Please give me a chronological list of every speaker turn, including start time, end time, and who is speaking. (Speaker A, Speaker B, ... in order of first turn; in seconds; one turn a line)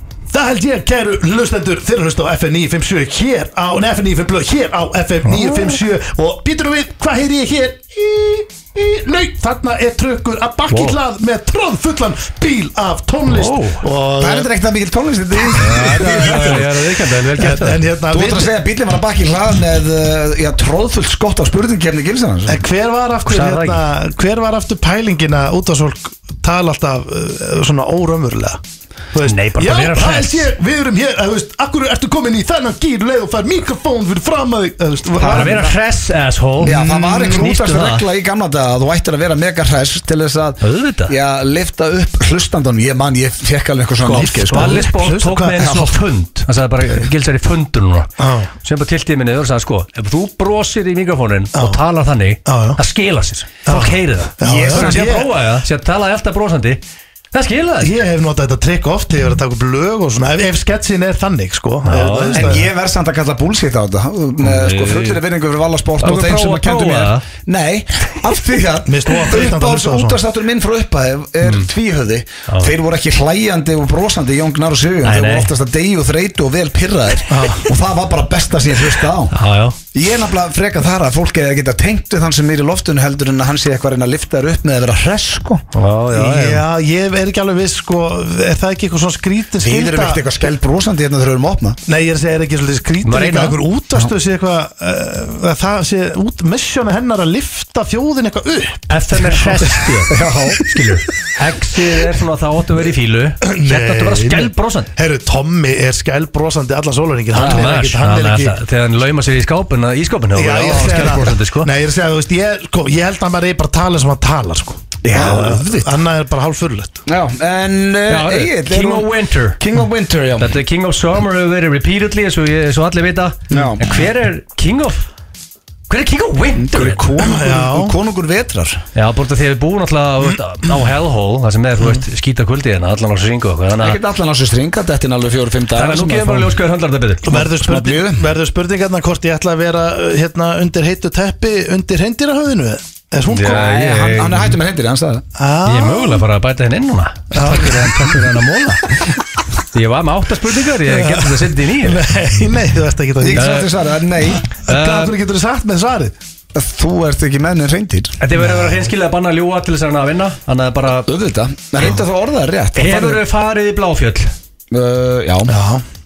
Speaker A: 0.3-14.5
Speaker B: 10.7-11.0
Speaker B: 13.3-13.8
Speaker C: 14.2-16.7
Speaker B: 15.5-17.8
Speaker A: 17.4-18.5
Speaker C: 18.1-22.6
Speaker A: 22.4-28.6
Speaker B: 23.2-23.8
Speaker A: 29.1-35.7
Speaker B: 29.2-30.5
Speaker C: 35.2-35.6
Speaker B: 35.2-38.0
Speaker C: 36.6-44.8
Speaker B: 40.6-41.1
Speaker A: 44.0-45.7
Speaker B: 44.0-48.1
Speaker C: 45.6-45.9
Speaker A: 48.2-48.5
Speaker B: 48.6-56.8
Speaker A: 51.5-51.8
Speaker A: 52.5-52.8
Speaker A: 53.6-55.3
Speaker C: 54.4-55.1
Speaker B: 57.3-57.9
Speaker A: 57.8-62.7
Speaker B: 61.9-62.6
Speaker C: 62.3-79.3
Speaker B: 64.4-65.2
Speaker B: 66.0-67.2
Speaker A: 68.8-70.2
Speaker B: 72.5-72.7
Speaker B: 75.0-75.5
Speaker A: 77.3-77.7
Speaker B: 79.3-79.8
Speaker C: 79.9-85.6
Speaker B: 85.7-86.6
Speaker A: 86.1-90.5
Speaker C: 89.6-91.8
Speaker A: 91.8-100.0
Speaker B: 93.0-93.6
Speaker B: 98.9-104.9
Speaker C: 100.0-100.6
Speaker A: 103.4-108.6
Speaker B: 107.3-111.7
Speaker C: 107.3-107.6
Speaker A: 110.3-117.0
Speaker C: 115.0-115.8
Speaker C: 117.0-120.5
Speaker B: 118.1-119.6
Speaker B: 120.4-125.0
Speaker A: 123.5-123.8
Speaker C: 123.5-123.8
Speaker B: 125.9-127.1
Speaker C: 126.5-128.8
Speaker A: 127.2-127.9
Speaker B: 128.9-134.0
Speaker C: 133.8-136.5
Speaker B: 135.8-137.4
Speaker A: 137.2-143.7
Speaker C: 137.3-138.2
Speaker B: 143.3-144.6
Speaker C: 143.4-145.2
Speaker A: 145.3-146.2
Speaker B: 145.7-149.0
Speaker A: 147.3-148.2
Speaker B: 149.7-152.1
Speaker A: 150.9-153.7
Speaker C: 153.2-154.4
Speaker B: 153.4-153.7
Speaker B: 154.5-155.1
Speaker A: 154.5-156.1
Speaker C: 156.5-158.2
Speaker B: 158.2-161.1
Speaker A: 158.3-158.9
Speaker C: 160.9-163.2
Speaker B: 162.7-164.3
Speaker C: 164.7-165.6
Speaker A: 165.5-165.8